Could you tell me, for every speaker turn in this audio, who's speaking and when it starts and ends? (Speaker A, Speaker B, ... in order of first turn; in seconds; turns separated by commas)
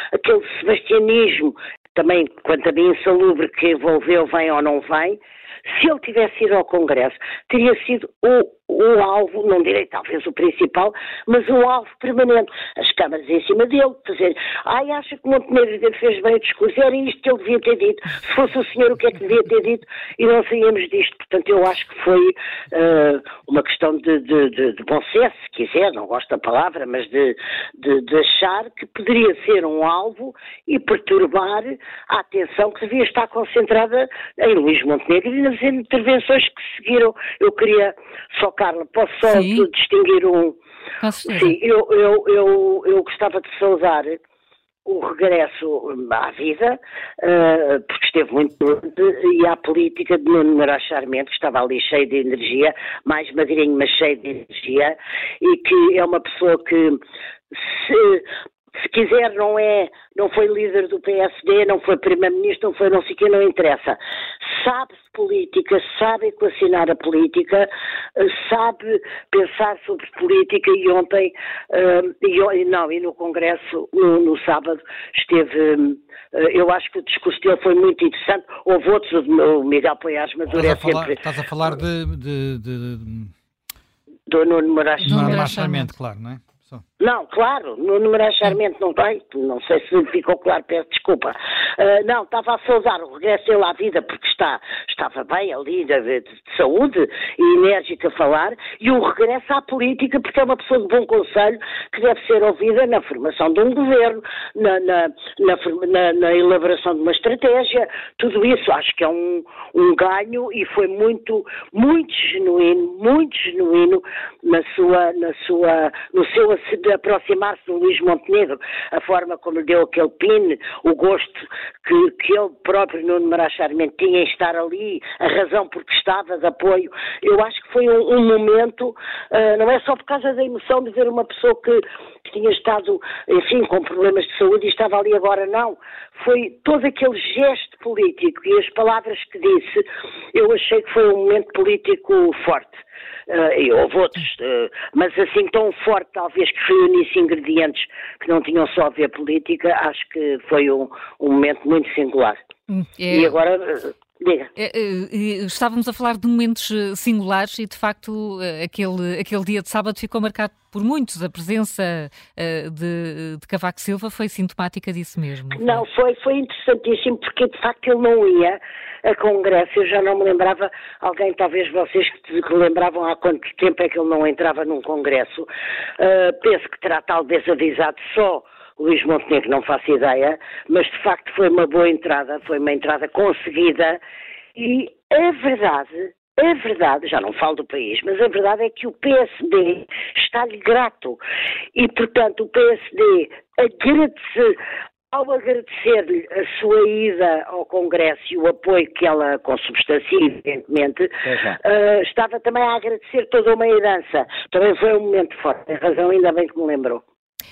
Speaker A: 0.2-40.6, Speaker B: 39.2-39.7, Speaker B: 41.0-41.6, Speaker A: 41.3-44.2, Speaker A: 44.9-57.0, Speaker A: 57.5-58.3, Speaker A: 58.8-81.2, Speaker C: 80.5-83.3, Speaker A: 84.3-85.5, Speaker C: 85.0-86.8, Speaker B: 85.0-85.9, Speaker A: 87.0-152.4, Speaker B: 152.7-153.4, Speaker A: 153.1-154.5, Speaker B: 154.6-165.8, Speaker A: 165.6-175.5, Speaker A: 176.0-184.0, Speaker A: 184.6-191.2, Speaker A: 191.8-194.5, Speaker A: 195.1-207.0